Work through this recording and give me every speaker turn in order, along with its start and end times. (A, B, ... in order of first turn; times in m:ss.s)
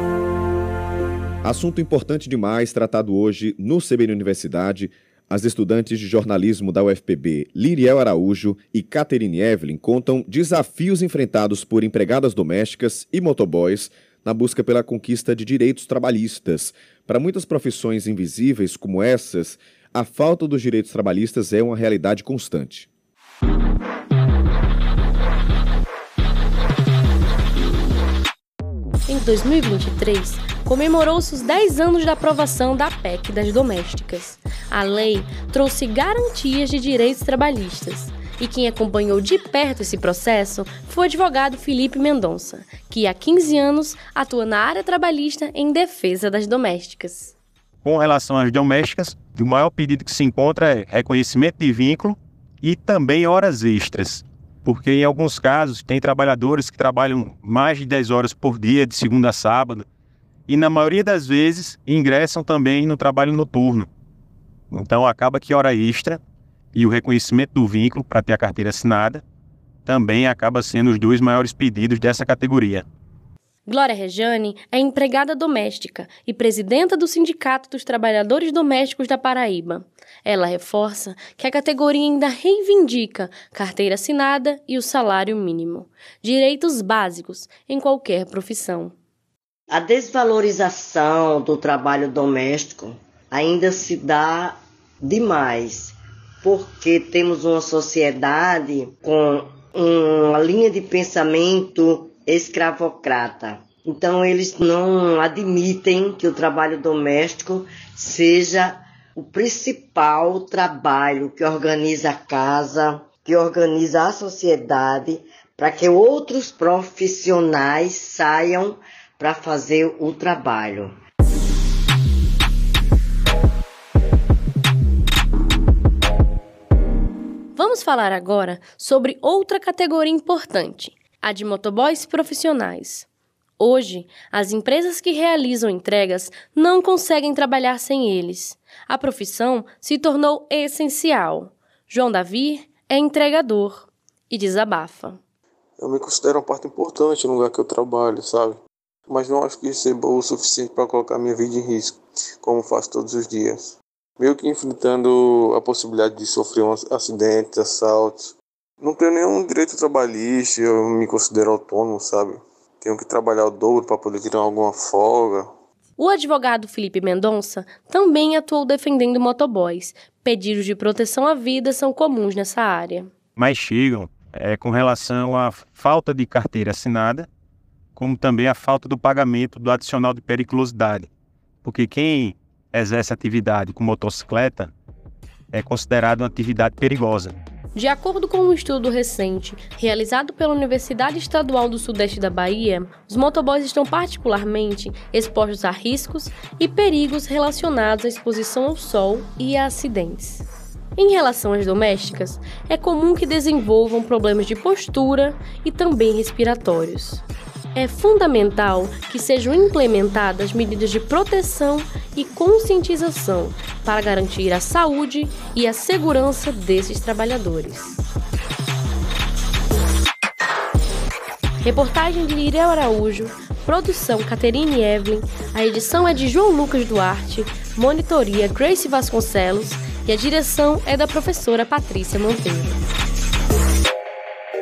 0:01.4-0:22.9 A
0:29.1-0:47.3 B
0:47.8-0:59.8 C
1:00.5-1:03.9 C
1:04.7-1:06.2 C
1:06.7-1:09.2 C
1:09.8-1:12.8 C
1:13.6-1:28.9 B
1:29.7-2:00.9 D
2:07.6-2:13.1 B
2:13.6-2:25.2 B
2:25.8-2:45.5 E
2:46.0-2:53.1 B
2:53.4-2:57.3 C
2:58.0-3:01.1 C
3:01.6-3:04.7 C
3:05.5-3:07.4 C
3:07.7-3:27.2 B
3:27.7-3:38.0 B
3:41.6-3:52.9 B